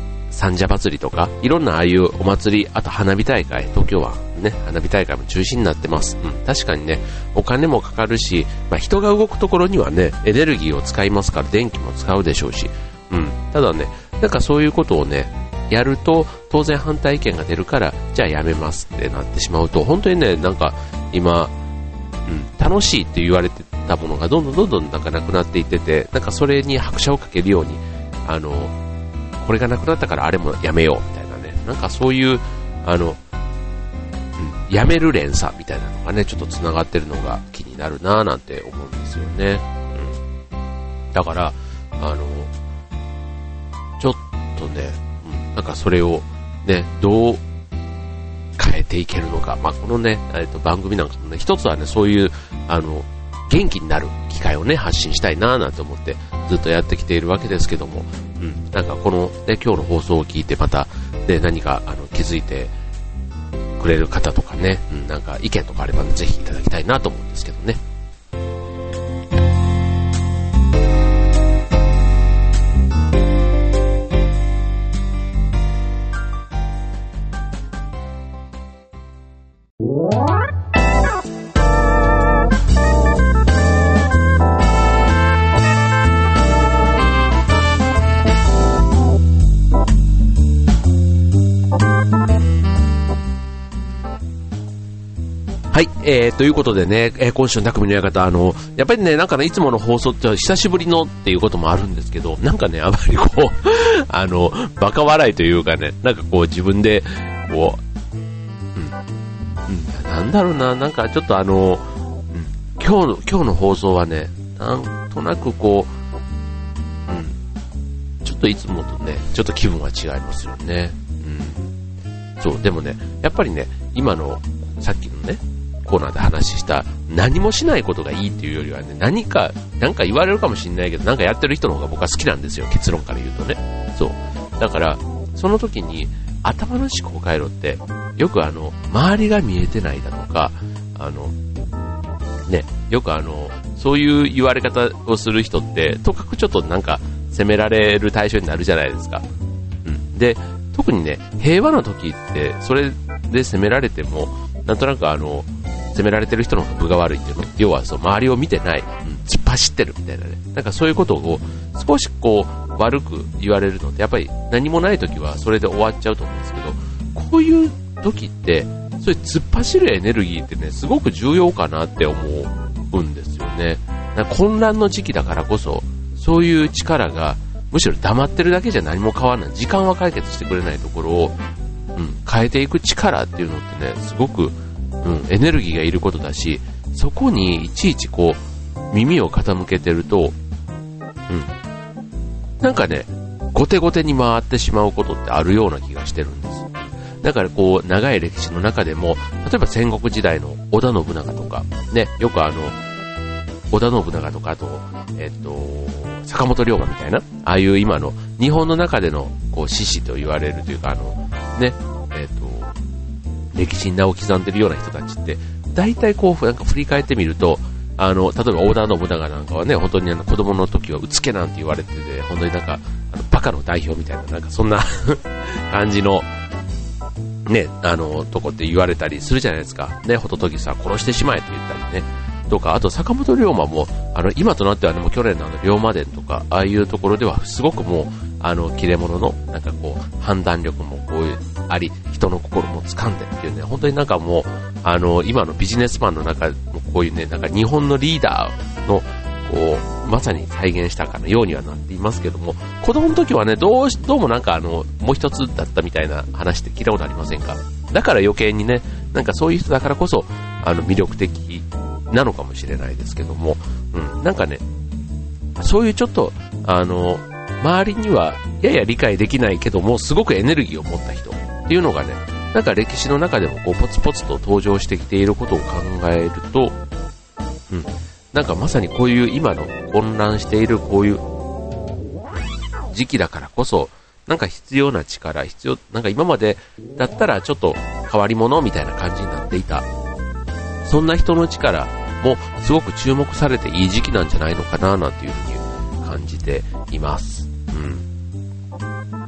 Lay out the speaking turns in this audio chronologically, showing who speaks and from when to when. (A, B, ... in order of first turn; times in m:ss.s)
0:00.3-0:21.5 A
0:22.2-0:28.7 A
0:29.4-0:33.2 A
0:34.4-0:40.2 A
0:41.1-0:42.5 A
0:44.0-0:47.4 A
0:48.6-1:02.7 A
1:03.8-1:07.8 A
1:35.7-1:47.8 A
1:49.7-1:55.9 A
1:57.1-1:57.4 A
1:58.2-2:01.7 A
2:02.4-2:21.4 A
2:22.5-2:29.2 A
2:29.8-3:01.4 A
3:02.0-3:10.4 A
3:12.6-3:22.8 A
3:23.7-3:32.7 A
3:33.5-3:46.3 A
3:47.4-4:24.6 A
4:25.6-4:36.7 A
4:37.7-4:41.2 A
4:42.9-4:49.9 A
4:50.8-4:58.0 A